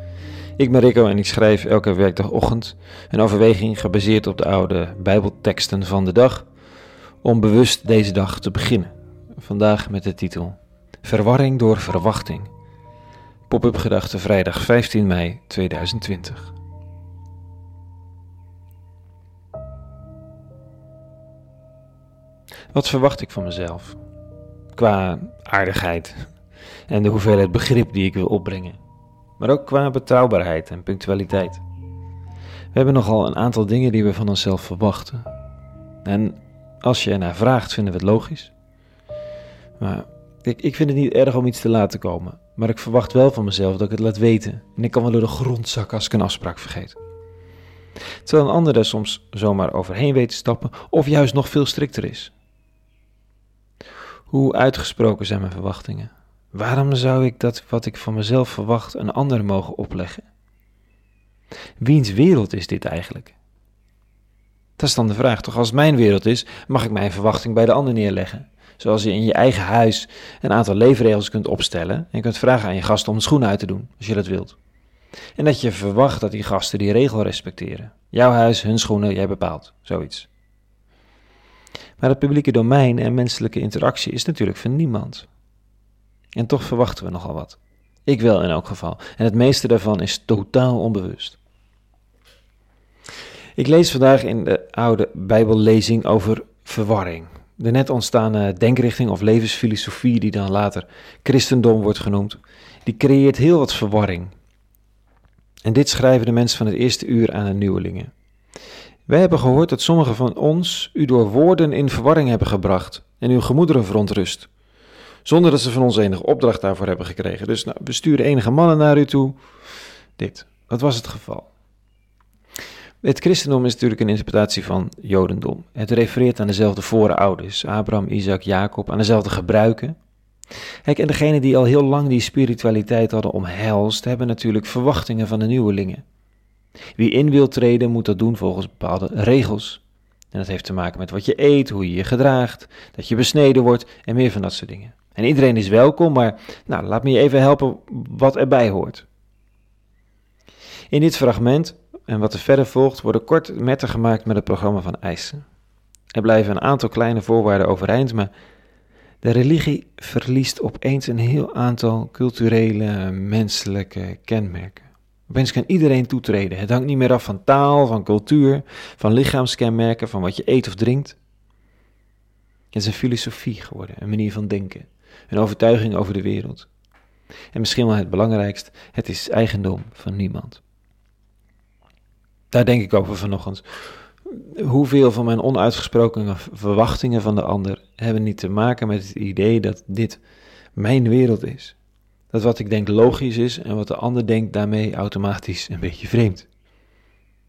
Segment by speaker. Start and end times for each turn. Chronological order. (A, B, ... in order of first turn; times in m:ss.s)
0:00.6-0:06.5 A
0:07.2-0:12.5 A
0:13.5-0:16.5 A
0:22.7-0:24.0 A
0:24.7-0:26.4 A
0:26.9-0:28.8 A
0:29.4-0:31.6 A
0:32.7-0:35.3 A
0:36.0-0:38.5 A
0:39.8-0:47.0 A
0:48.2-0:52.3 A
0:54.3-1:00.3 A
1:01.8-1:03.4 A
1:04.8-1:14.6 A
1:15.4-1:20.3 A
1:22.0-1:25.3 A
1:26.4-1:31.4 A
1:33.6-1:44.3 A
1:45.6-1:48.1 A
1:49.1-1:54.5 A
1:55.2-1:59.4 A
2:00.2-2:01.5 A
2:03.0-2:10.0 A
2:10.8-2:16.0 A
2:17.0-2:19.8 A
2:20.3-2:29.1 A
2:30.9-2:35.4 A
2:36.1-2:38.3 A
2:39.2-2:51.2 A
2:52.7-2:56.7 A
2:57.5-3:00.6 A
3:02.5-3:10.2 A
3:10.8-3:11.8 A
3:12.3-3:16.5 A